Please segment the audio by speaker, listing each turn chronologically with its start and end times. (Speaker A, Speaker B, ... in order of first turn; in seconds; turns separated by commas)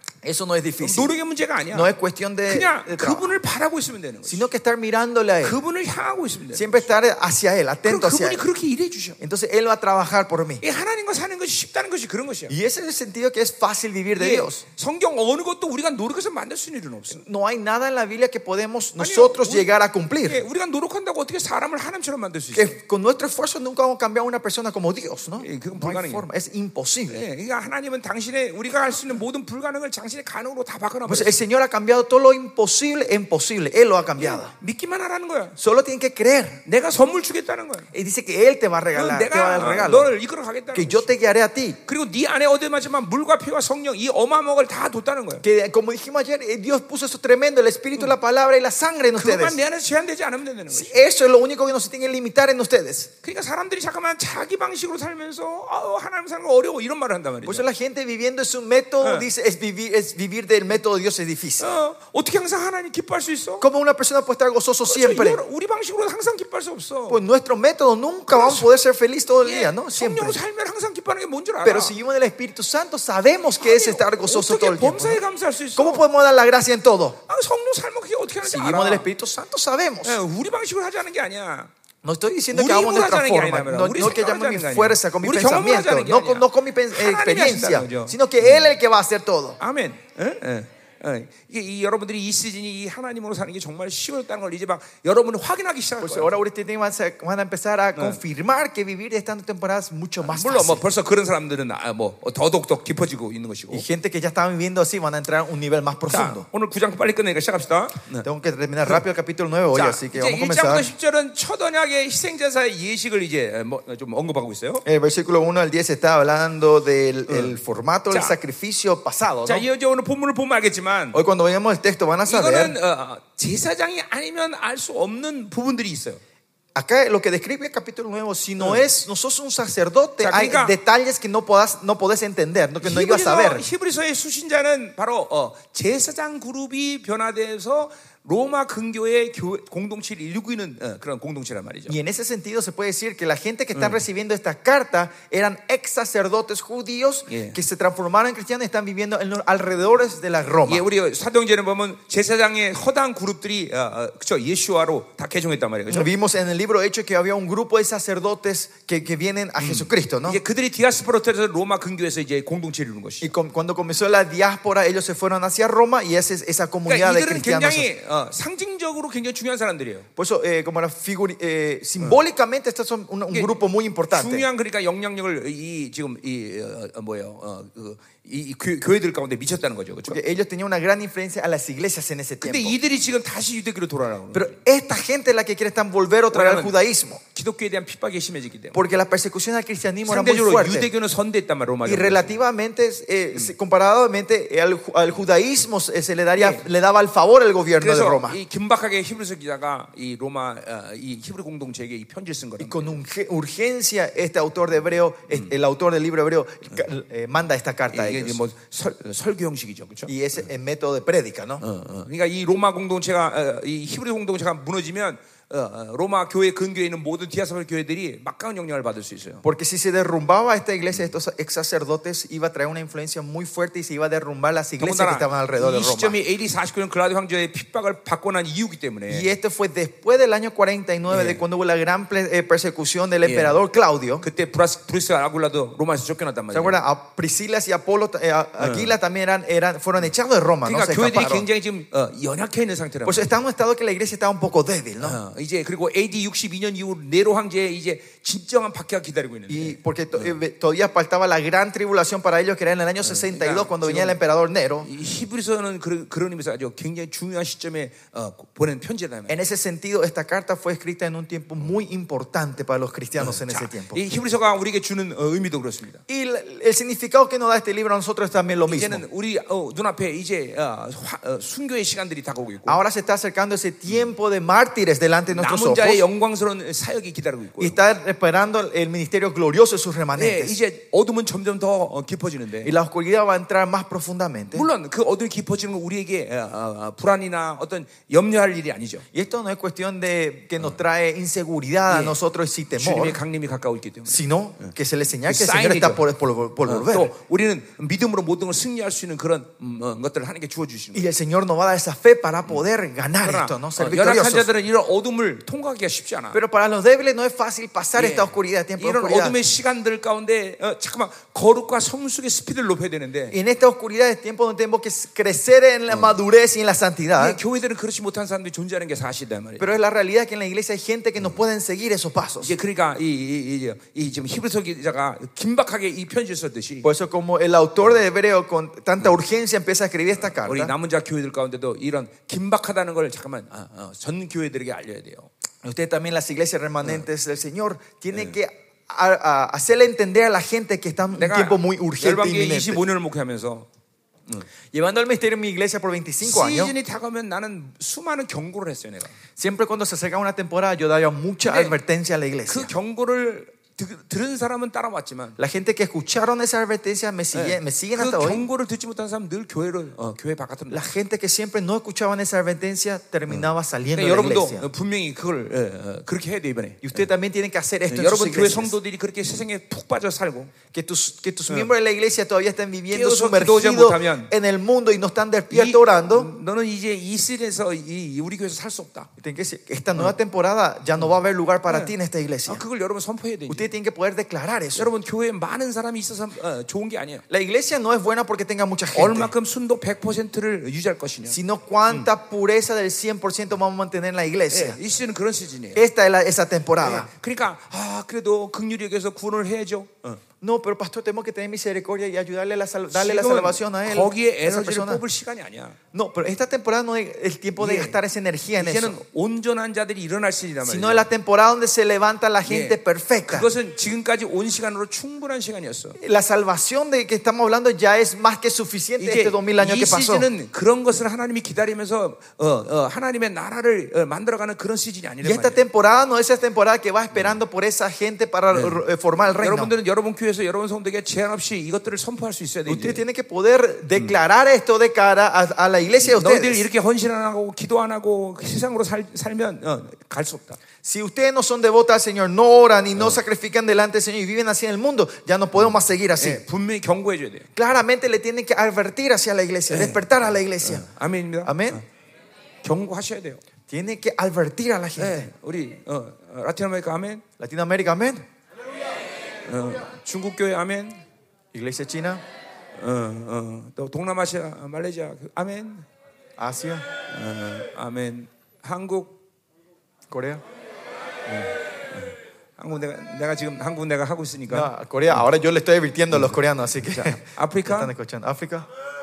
Speaker A: 0.2-1.1, Speaker B: 0.8-1.9, Speaker A: 1.7-3.4, Speaker B: 2.5-4.4, Speaker A: 4.2-5.6, Speaker B: 5.4-6.9, Speaker A: 6.5-8.4, Speaker B: 7.8-9.2, Speaker A: 9.2-10.6, Speaker B: 10.6-12.5, Speaker A: 12.5-14.6, Speaker B: 14.2-17.2, Speaker A: 17.1-20.4, Speaker B: 19.0-19.7, Speaker B: 20.2-22.8, Speaker A: 22.5-27.2, Speaker B: 25.4-26.2, Speaker B: 27.1-31.4, Speaker A: 31.1-34.5, Speaker B: 34.2-35.5, Speaker A: 35.6-36.6, Speaker B: 36.6-37.9, Speaker A: 37.9-40.1, Speaker B: 38.9-41.1, Speaker A: 40.7-41.8, Speaker B: 41.9-45.4, Speaker A: 45.4-49.6, Speaker B: 49.1-51.0, Speaker A: 50.7-53.1, Speaker B: 53.2-57.6, Speaker A: 57.4-61.7, Speaker B: 59.0-59.3, Speaker B: 61.6-63.6, Speaker A: 63.6-65.4, Speaker B: 64.8-67.2, Speaker A: 67.1-70.4, Speaker B: 68.3-68.7, Speaker B: 69.4-71.9, Speaker A: 71.6-75.2, Speaker B: 73.6-76.0, Speaker A: 75.8-77.2, Speaker B: 77.3-79.1, Speaker A: 78.4-80.2, Speaker B: 80.0-81.7, Speaker A: 82.0-89.6, Speaker B: 82.5-88.7, Speaker B: 89.6-96.4, Speaker A: 96.0-100.8, Speaker B: 100.2-103.8, Speaker A: 103.7-106.4, Speaker B: 106.1-108.3, Speaker A: 108.2-110.9, Speaker B: 109.7-114.8, Speaker A: 114.8-119.7, Speaker B: 117.3-117.5, Speaker B: 118.1-118.3, Speaker B: 119.5-121.2, Speaker A: 121.1-122.8, Speaker B: 122.3-126.2, Speaker A: 126.8-133.6, Speaker B: 130.2-130.7, Speaker B: 132.8-141.9, Speaker A: 141.9-150.8, Speaker B: 143.8-144.0, Speaker B: 147.3-147.6, Speaker B: 150.7-156.1, Speaker A: 155.9-160.4, Speaker B: 159.6-163.3, Speaker A: 163.2-167.9, Speaker B: 166.9-170.1, Speaker A: 170.2-174.5, Speaker B: 173.3-180.2, Speaker A: 180.1-182.8, Speaker B: 182.4-184.6, Speaker A: 184.3-187.2, Speaker B: 186.3-186.7, Speaker B: 187.3-188.8, Speaker A: 188.7-190.9, Speaker B: 190.1-192.4, Speaker A: 191.8-198.4, Speaker B: 196.3-196.7, Speaker B: 197.8-203.0, Speaker A: 202.6-208.4, Speaker B: 207.9-210.1, Speaker A: 210.1-211.6, Speaker B: 211.6-219.4, Speaker A: 219.4-226.2, Speaker B: 224.8-229.3, Speaker A: 229.1-234.2, Speaker B: 231.1-231.4, Speaker B: 233.2-233.6, Speaker B: 234.2-236.8, Speaker A: 236.5-241.5, Speaker B: 238.6-238.9, Speaker B: 240.6-243.3, Speaker A: 243.1-245.2, Speaker B: 245.0-250.4, Speaker A: 249.5-254.9, Speaker B: 253.0-254.2, Speaker B: 254.8-259.4, Speaker A: 259.3-264.0, Speaker B: 263.2-266.0, Speaker A: 266.1-269.0, Speaker B: 268.7-272.8, Speaker A: 272.6-276.0, Speaker B: 275.3-277.8, Speaker A: 277.6-280.5, Speaker B: 280.1-282.7, Speaker A: 282.6-284.7, Speaker B: 284.5-289.0, Speaker A: 289.1-293.2, Speaker B: 291.9-292.2, Speaker B: 292.8-294.7, Speaker A: 294.1-297.1, Speaker B: 295.2-296.0, Speaker B: 296.6-301.1, Speaker A: 300.9-304.5, Speaker B: 303.2-306.4, Speaker A: 306.3-309.4, Speaker B: 307.9-313.3, Speaker A: 313.3-317.4, Speaker B: 315.9-316.1, Speaker B: 317.1-319.7, Speaker A: 319.6-322.5, Speaker B: 322.4-326.9, Speaker A: 326.8-330.7, Speaker B: 330.3-335.3, Speaker A: 335.6-342.8, Speaker B: 341.1-343.7, Speaker A: 344.7-346.7, Speaker B: 346.2-349.1, Speaker A: 349.4-352.7, Speaker B: 351.4-351.8, Speaker B: 352.5-355.4, Speaker A: 355.4-358.4, Speaker B: 357.3-360.9, Speaker A: 360.7-364.7, Speaker B: 363.3-367.0, Speaker A: 366.8-368.7, Speaker B: 367.9-370.5, Speaker A: 370.7-376.3, Speaker B: 372.9-374.3, Speaker B: 375.5-379.1, Speaker A: 379.2-382.6, Speaker B: 381.7-381.9, Speaker B: 382.4-383.7, Speaker A: 383.5-384.9, Speaker B: 384.8-387.2, Speaker A: 387.3-389.3, Speaker B: 388.9-391.4, Speaker A: 391.3-394.8, Speaker B: 394.5-395.8, Speaker A: 395.7-397.1, Speaker B: 396.8-400.2, Speaker A: 400.4-405.0, Speaker B: 402.9-405.8, Speaker A: 405.9-408.9, Speaker B: 407.6-408.0, Speaker B: 408.6-411.1, Speaker A: 410.6-413.5, Speaker B: 412.4-416.0, Speaker A: 416.0-420.3, Speaker B: 419.0-425.6, Speaker A: 425.2-429.7, Speaker B: 428.5-428.8, Speaker B: 429.3-433.0, Speaker A: 432.7-436.6, Speaker B: 436.0-440.6, Speaker A: 440.8-446.4, Speaker B: 445.6-447.5, Speaker A: 447.6-450.9, Speaker B: 449.7-450.1, Speaker B: 450.6-451.8, Speaker A: 451.4-451.8, Speaker B: 452.6-453.4, Speaker A: 453.7-455.3, Speaker B: 455.0-457.2, Speaker A: 457.4-458.2, Speaker B: 459.4-461.0, Speaker A: 461.5-462.2, Speaker B: 462.8-465.9, Speaker A: 466.4-466.8, Speaker B: 467.1-469.2, Speaker A: 470.1-470.4, Speaker B: 471.2-475.2, Speaker A: 474.5-478.7, Speaker B: 476.1-477.9